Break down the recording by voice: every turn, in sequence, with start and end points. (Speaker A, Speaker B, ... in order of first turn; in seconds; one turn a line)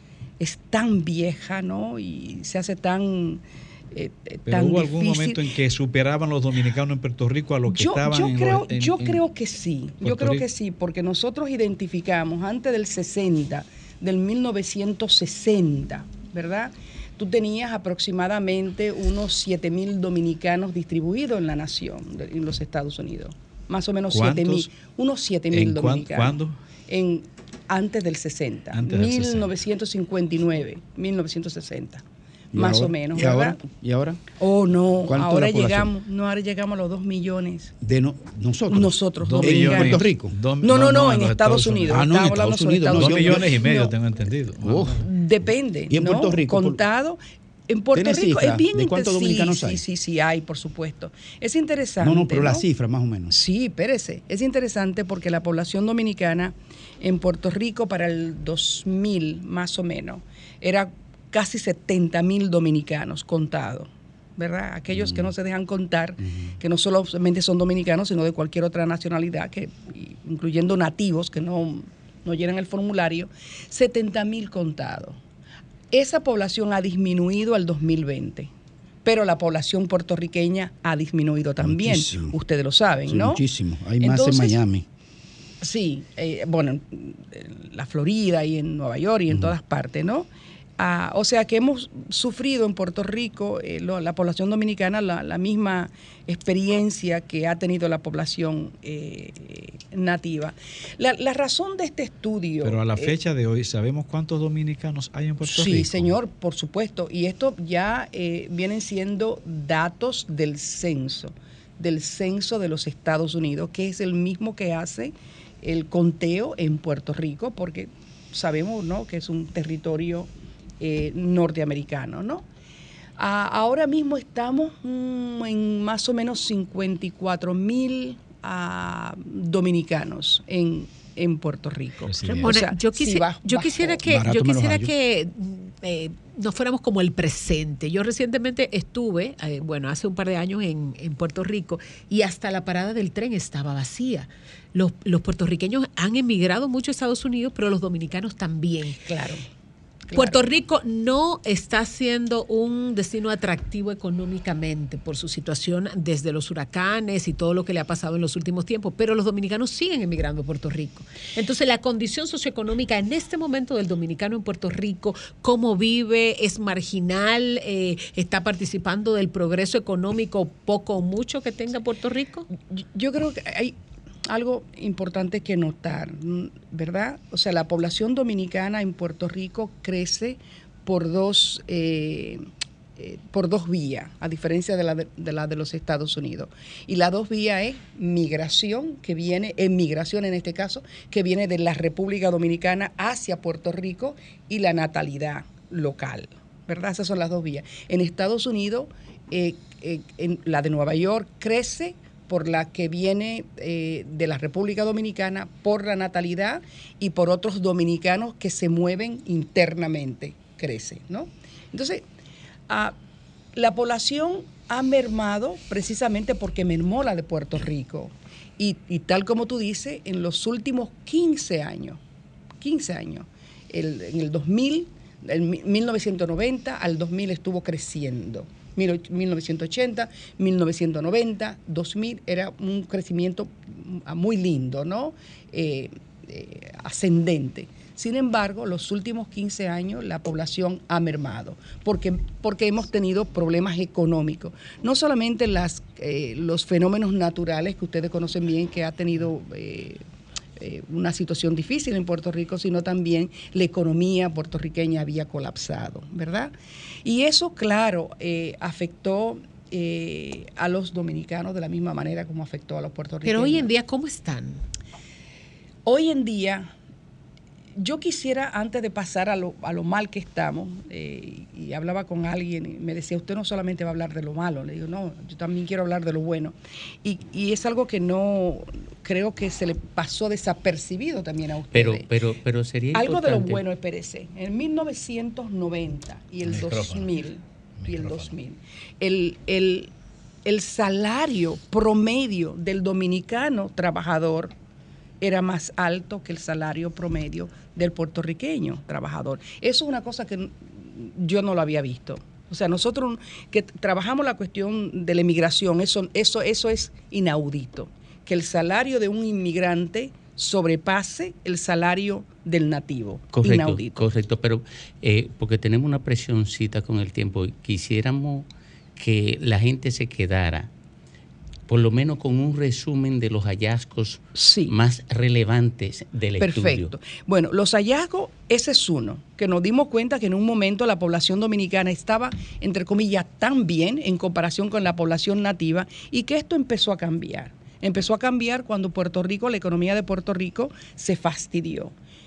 Speaker A: 0.4-5.4
Speaker B: 4.4-9.2
Speaker A: 7.7-32.0
Speaker B: 10.0-10.4
Speaker B: 24.1-24.7
Speaker B: 25.5-26.6
Speaker B: 28.7-29.5
Speaker C: 32.5-34.3
Speaker A: 32.5-33.6
Speaker A: 34.3-37.7
Speaker C: 35.1-35.9
Speaker C: 37.8-40.4
Speaker A: 38.7-40.0
Speaker B: 39.2-42.1
Speaker A: 40.6-43.9
Speaker C: 41.9-43.5
Speaker B: 42.9-45.0
Speaker C: 44.6-45.0
Speaker A: 45.0-52.6
Speaker C: 45.9-46.8
Speaker C: 47.9-49.8
Speaker C: 52.0-53.3
Speaker A: 53.3-75.2
Speaker C: 64.9-65.2
Speaker A: 75.9-78.5
Speaker A: 79.0-83.4
Speaker C: 81.6-82.3
Speaker C: 83.1-84.8
Speaker A: 84.0-84.6
Speaker A: 85.6-90.3
Speaker A: 90.8-103.1
Speaker B: 102.6-106.1
Speaker A: 105.4-122.4
Speaker A: 123.2-134.0
Speaker B: 132.1-132.5
Speaker D: 132.2-149.0
Speaker C: 134.0-134.9
Speaker A: 149.1-149.4
Speaker A: 150.1-150.5
Speaker D: 150.1-172.4
Speaker A: 172.7-173.7
Speaker A: 174.2-182.4
Speaker A: 183.0-212.0
Speaker A: 212.7-212.9
Speaker A: 213.5-222.0
Speaker A: 222.6-250.0
Speaker A: 250.6-256.5
Speaker A: 257.0-263.7
Speaker D: 263.2-264.6
Speaker A: 265.9-266.7
Speaker A: 267.8-282.1
Speaker E: 281.7-283.6
Speaker A: 282.9-289.9
Speaker B: 286.4-287.1
Speaker B: 287.8-288.3
Speaker A: 290.4-294.5
Speaker A: 295.2-314.0
Speaker E: 313.3-320.7
Speaker E: 321.7-326.9
Speaker A: 324.3-324.7
Speaker A: 326.4-341.9